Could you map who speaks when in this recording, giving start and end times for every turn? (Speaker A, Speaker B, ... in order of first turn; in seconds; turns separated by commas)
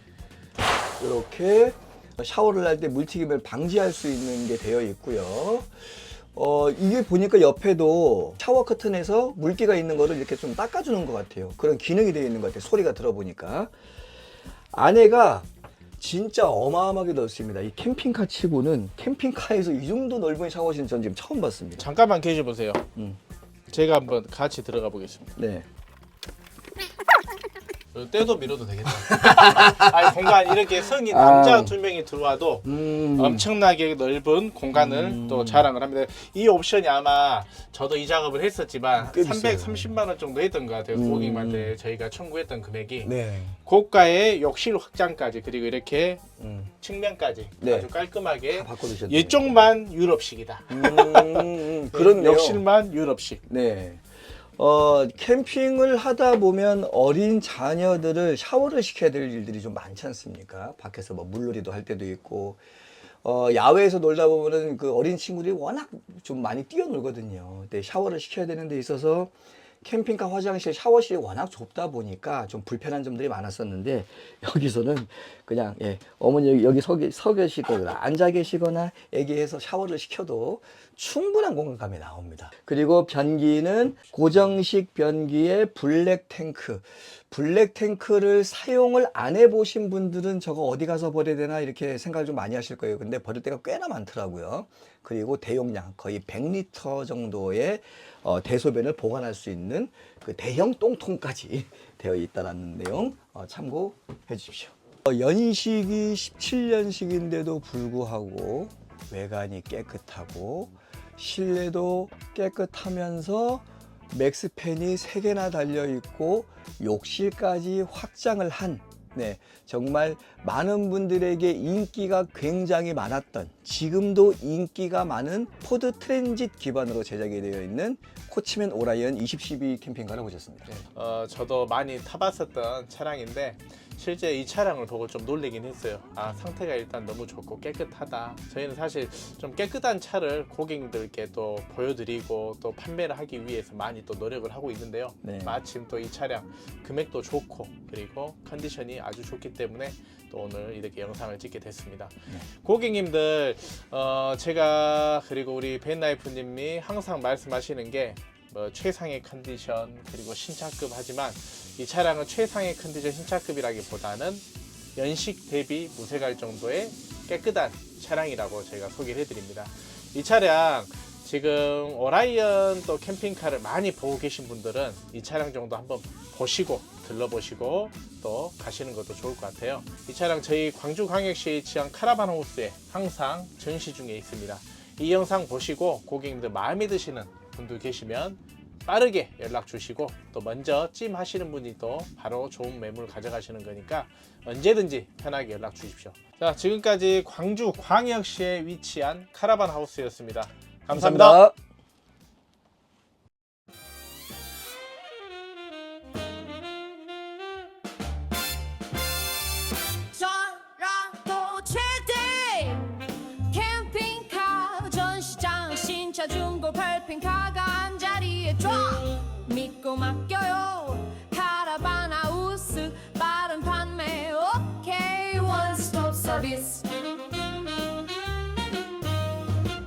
Speaker A: 1.0-13.7, Speaker A: 14.7-15.5, Speaker A: 16.0-21.9, Speaker B: 21.8-22.9, Speaker B: 23.7-25.3, Speaker A: 25.4-25.6, Speaker B: 27.9-43.1, Speaker A: 29.2-29.9, Speaker A: 31.0-31.8, Speaker A: 32.6-33.5, Speaker A: 34.7-35.7, Speaker A: 39.0-39.9, Speaker A: 40.9-41.7, Speaker A: 43.0-43.6, Speaker B: 43.6-46.2, Speaker A: 46.4-46.7, Speaker B: 46.8-53.4, Speaker A: 47.6-47.9, Speaker A: 48.5-49.7, Speaker A: 50.7-52.6, Speaker A: 53.5-54.0, Speaker A: 54.6-62.6, Speaker A: 63.2-130.7, Speaker B: 130.7-164.4, Speaker A: 145.2-145.6, Speaker B: 164.9-201.4, Speaker A: 200.9-201.5, Speaker C: 209.9-229.1